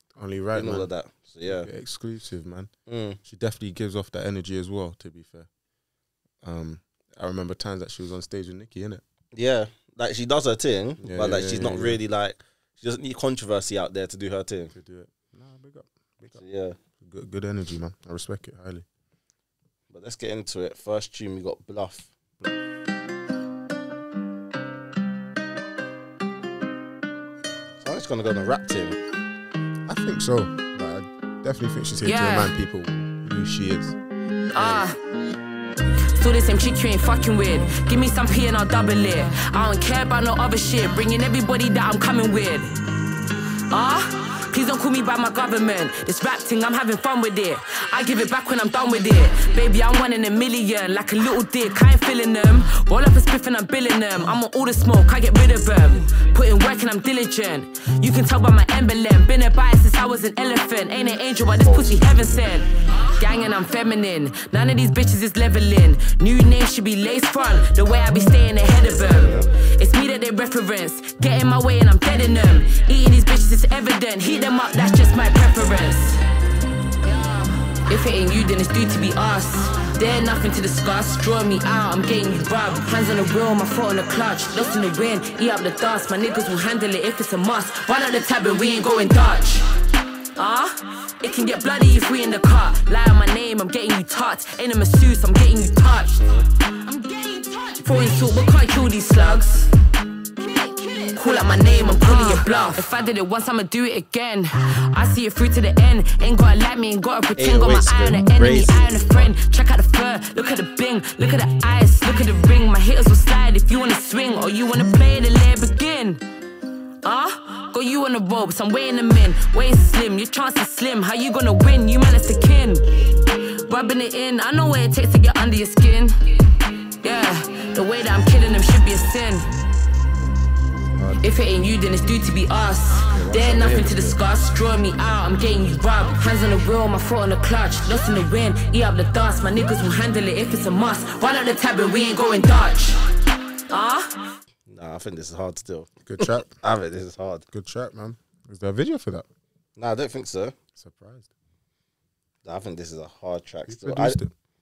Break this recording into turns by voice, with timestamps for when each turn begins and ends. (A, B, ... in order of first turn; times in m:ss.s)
0:00.2-0:00.9 A
0:00.5-0:01.7 B
0:01.4-0:02.7 A
0:02.9-0:03.2 B
0:03.2-0:05.5 A
0:06.4-0:09.0 A
0:09.3-0:14.7 B
0:11.0-0:12.0 A
0:14.7-0:16.4 A
0:16.3-0:16.8 B
0:17.0-0:18.8 A
0:19.9-0:22.1 B
0:27.8-0:29.0 B
0:29.8-0:34.0 A
0:32.1-0:32.4 C
0:34.5-0:34.9 C
0:36.2-0:42.7 C
0:43.7-1:16.2 C
1:01.5-1:02.4 A
1:09.0-1:09.5 B
1:17.8-1:29.7 C
1:30.4-1:36.2 C
1:36.2-1:36.4 B
1:36.9-1:39.7 C
1:40.9-1:56.2 C
1:47.4-1:49.3 B
1:57.0-2:02.8 C
2:03.6-2:06.1 C
2:07.0-2:09.4 C
2:11.0-2:11.4 A
2:11.2-2:23.0 C
2:13.1-2:14.2 B
2:23.7-2:24.1 C
2:24.7-2:27.4 B
2:26.0-2:26.5 A
2:27.5-2:29.3 A
2:29.8-2:30.5 B
2:30.8-2:31.3 A
2:32.4-2:34.2 B
2:33.7-2:34.3 A